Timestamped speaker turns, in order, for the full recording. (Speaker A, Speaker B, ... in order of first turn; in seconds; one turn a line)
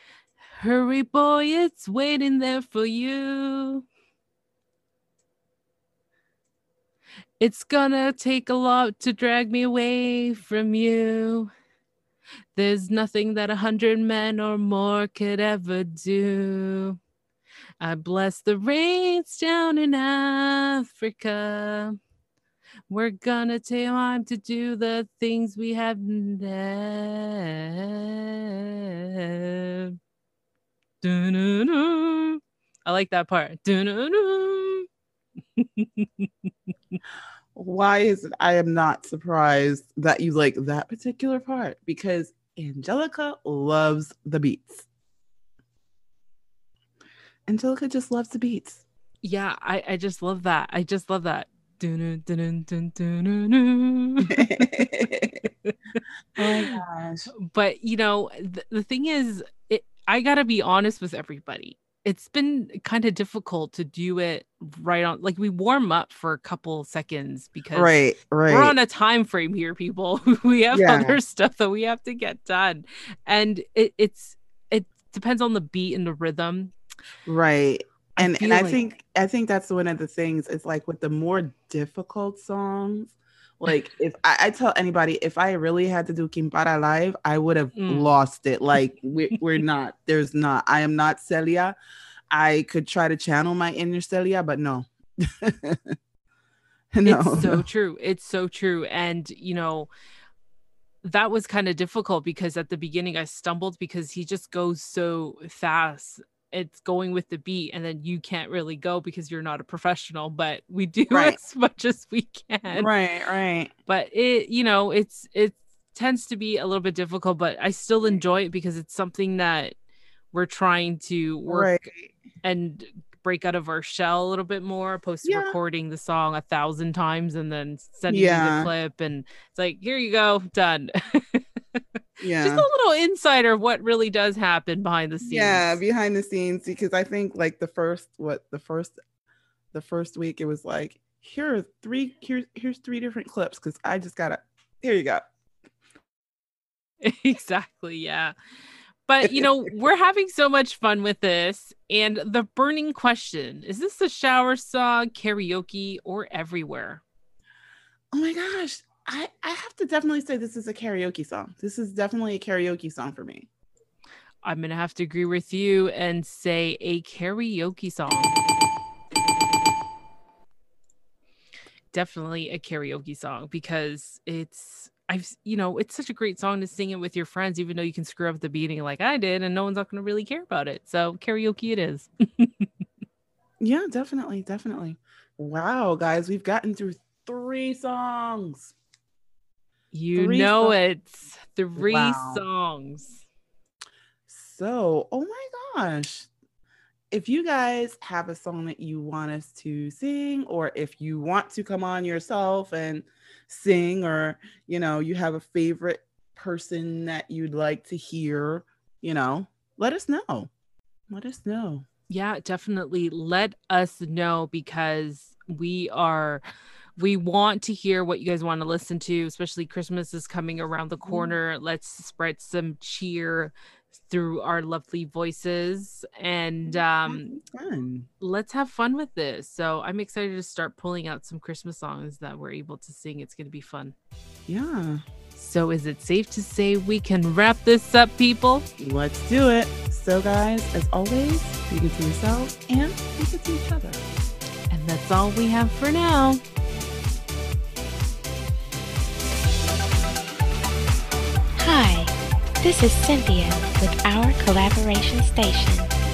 Speaker A: 0.6-3.9
Speaker A: 7.4-11.5
Speaker A: 12.6-17.0
Speaker A: 17.8-22.0
Speaker A: 22.9-30.0
Speaker A: 31.0-34.9
Speaker A: 35.6-36.3
Speaker B: 37.5-44.9
Speaker B: 47.5-48.8
Speaker A: 49.2-55.8
Speaker B: 54.3-55.4
Speaker A: 56.4-56.8
Speaker B: 56.4-57.3
Speaker A: 57.5-68.0
Speaker B: 67.7-68.8
Speaker A: 68.5-76.7
Speaker B: 70.7-71.2
Speaker B: 77.3-91.8
Speaker A: 78.2-78.8
Speaker A: 87.8-88.1
Speaker B: 92.3-96.0
Speaker B: 96.9-97.7
Speaker A: 97.0-99.9
Speaker A: 101.0-112.9
Speaker B: 111.1-111.4
Speaker B: 112.7-113.7
Speaker A: 113.9-119.7
Speaker A: 120.3-121.7
Speaker B: 121.5-122.2
Speaker A: 122.4-131.8
Speaker B: 125.2-125.6
Speaker B: 128.1-128.7
Speaker B: 132.2-132.7
Speaker A: 132.4-135.8
Speaker B: 135.2-139.0
Speaker B: 139.7-145.2
Speaker A: 147.0-148.3
Speaker A: 149.1-157.0
Speaker B: 158.1-163.5
Speaker A: 164.4-168.3
Speaker A: 171.9-182.7
Speaker B: 183.6-188.7
Speaker A: 189.9-193.2
Speaker B: 190.2-190.8
Speaker B: 191.8-192.4
Speaker B: 194.3-196.3
Speaker B: 197.1-210.5
Speaker B: 211.1-211.9
Speaker A: 212.1-216.4
Speaker A: 217.0-227.4
Speaker B: 221.0-221.3
Speaker B: 226.7-228.1
Speaker A: 228.2-233.9
Speaker B: 234.5-235.0
Speaker A: 235.4-238.7
Speaker B: 238.8-244.0
Speaker A: 244.7-246.4
Speaker C: 251.6-252.1
Speaker C: 252.6-255.9